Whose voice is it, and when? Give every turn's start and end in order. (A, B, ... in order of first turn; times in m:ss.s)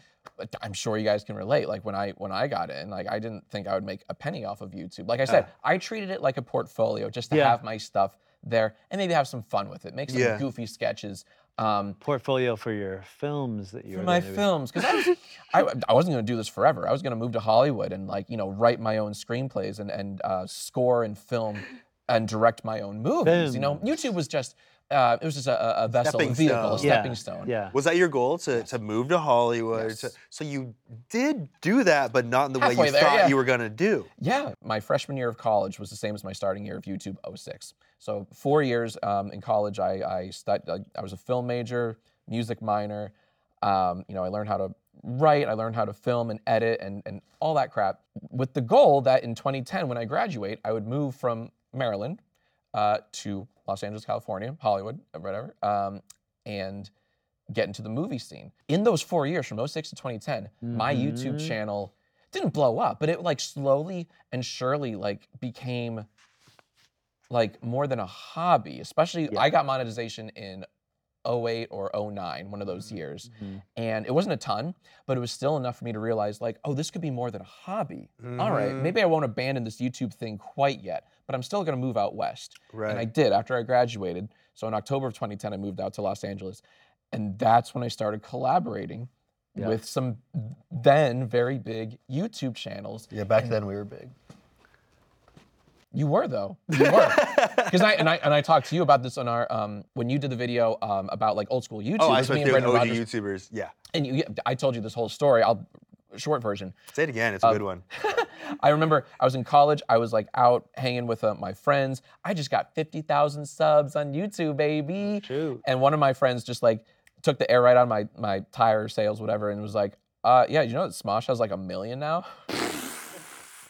0:00.4-0:12.0 A
0:07.3-0:07.6 B
0:10.1-0:10.4 C
0:12.0-0:14.5 B
0:13.9-0:27.5 A
0:23.2-0:24.0 B
0:26.0-0:27.0 C
0:26.8-0:27.7 B
0:27.7-0:34.1 C
0:29.7-0:30.1 A
0:32.6-0:33.4 A
0:34.2-0:52.2 A
0:52.7-0:56.9 A
0:57.5-1:06.1 A
1:00.6-1:01.6 B
1:07.3-1:10.7 A
1:11.2-1:33.5 A
1:13.2-1:13.6 B
1:18.2-1:18.9 C
1:22.7-1:23.1 C
1:33.1-1:34.1 C
1:35.9-1:43.0 A
1:36.7-1:38.1 C
1:42.0-1:43.7 C
1:43.9-1:46.8 A
1:46.9-1:47.8 C
1:47.4-2:02.2 A
1:55.0-1:55.6 B